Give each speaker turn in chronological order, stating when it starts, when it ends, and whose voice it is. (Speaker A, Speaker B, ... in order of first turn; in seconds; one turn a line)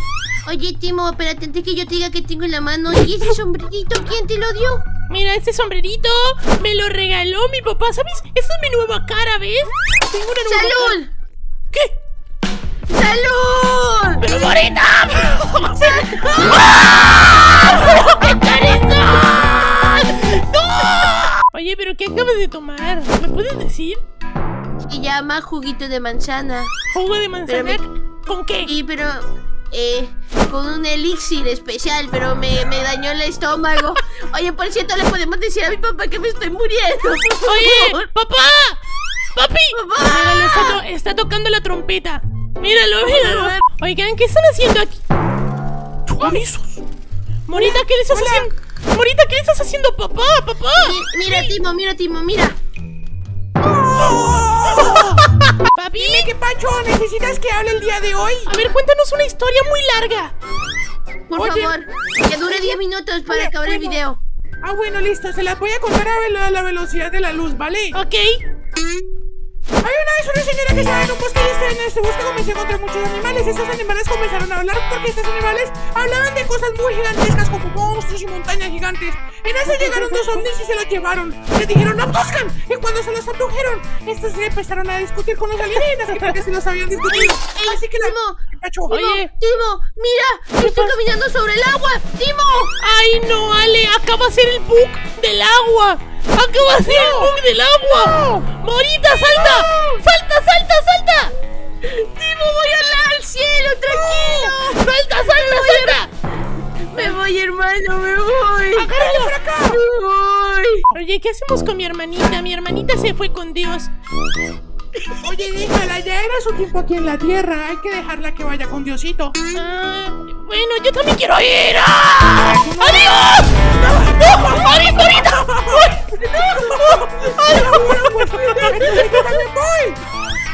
Speaker A: 0.5-4.8
Speaker B: 5.1-11.0
Speaker A: 10.4-11.1
Speaker A: 12.9-14.2
Speaker B: 14.2-24.0
Speaker A: 15.6-16.9
Speaker A: 24.9-26.7
Speaker B: 26.9-28.7
Speaker A: 27.5-27.8
Speaker A: 28.7-38.1
Speaker B: 37.4-38.8
Speaker B: 39.4-45.0
Speaker A: 39.7-40.8
Speaker A: 43.1-43.6
Speaker B: 46.1-46.8
Speaker B: 47.5-51.5
Speaker C: 47.5-48.5
Speaker A: 50.8-52.6
Speaker C: 53.6-55.3
Speaker B: 55.7-56.3
Speaker C: 56.0-58.5
Speaker B: 58.5-60.3
Speaker A: 61.3-64.2
Speaker C: 61.3-61.8
Speaker C: 62.5-62.8
Speaker C: 63.3-64.0
Speaker C: 64.6-68.0
Speaker B: 67.9-68.4
Speaker C: 69.8-89.1
Speaker A: 87.3-92.8
Speaker B: 88.9-89.3
Speaker B: 90.6-91.0
Speaker B: 92.8-101.3
Speaker C: 96.8-97.3
Speaker C: 98.2-98.4
Speaker A: 101.8-106.0
Speaker B: 103.9-106.1
Speaker A: 106.9-110.9
Speaker C: 108.7-109.8
Speaker B: 110.9-113.9
Speaker C: 115.2-119.3
Speaker B: 119.5-126.1
Speaker C: 122.5-125.9
Speaker A: 126.1-127.1
Speaker B: 126.7-129.2
Speaker C: 126.8-130.0
Speaker A: 127.6-129.4